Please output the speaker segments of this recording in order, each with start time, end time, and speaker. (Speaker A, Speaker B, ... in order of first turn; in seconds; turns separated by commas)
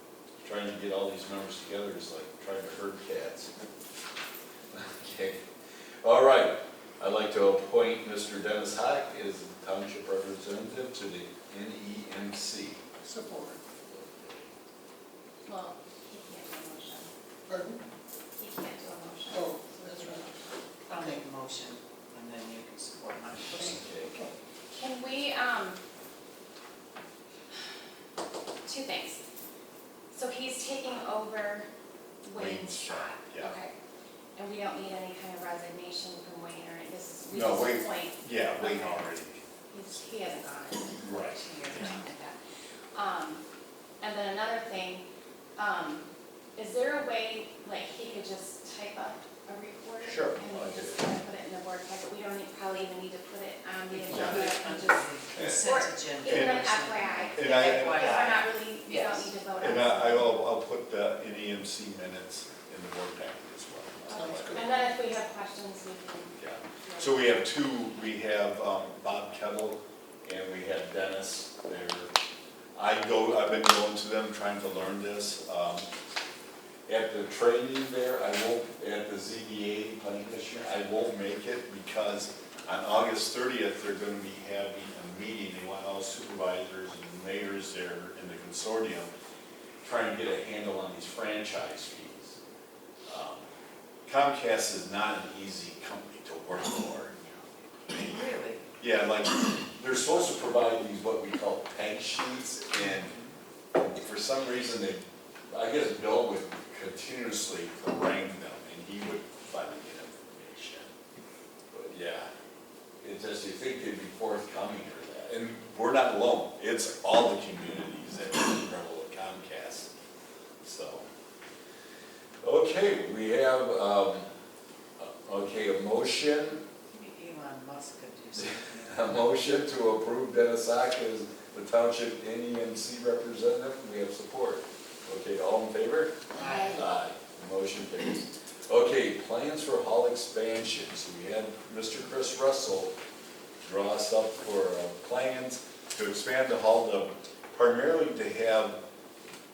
Speaker A: 0.4-3.5, Speaker A: 4.7-5.4, Speaker A: 6.0-12.8, Speaker B: 13.0-13.6, Speaker A: 13.9-14.5, Speaker C: 15.5-17.1, Speaker B: 17.5-17.8, Speaker C: 18.3-20.5, Speaker B: 19.3-20.2, Speaker D: 20.9-23.8, Speaker A: 23.5-24.2, Speaker C: 24.7-25.8, Speaker C: 28.7-29.2, Speaker C: 30.1-31.7, Speaker C: 32.2-33.7, Speaker A: 32.4-33.5, Speaker C: 34.4-39.1, Speaker A: 37.3-39.4, Speaker C: 39.7-42.4, Speaker A: 41.0-41.9, Speaker C: 42.9-43.4, Speaker C: 44.0-46.0, Speaker C: 46.6-60.3, Speaker A: 50.0-51.1, Speaker D: 53.9-59.3, Speaker A: 54.1-54.5, Speaker A: 55.3-56.8, Speaker A: 57.3-58.3, Speaker A: 59.6-64.7, Speaker C: 64.1-67.4, Speaker B: 64.2-64.6, Speaker A: 66.4-72.1, Speaker A: 72.8-75.9, Speaker A: 76.9-89.1, Speaker A: 89.8-92.4, Speaker A: 93.1-93.5, Speaker A: 94.1-97.2, Speaker D: 97.9-98.6, Speaker A: 98.8-103.2, Speaker D: 102.8-103.3, Speaker A: 103.8-110.9, Speaker A: 111.7-112.3, Speaker A: 113.0-119.9, Speaker A: 120.6-121.1, Speaker A: 122.4-124.3, Speaker A: 125.0-126.6, Speaker D: 126.9-129.0, Speaker A: 128.4-142.9, Speaker D: 136.3-136.8, Speaker C: 136.4-136.8, Speaker A: 143.6-148.8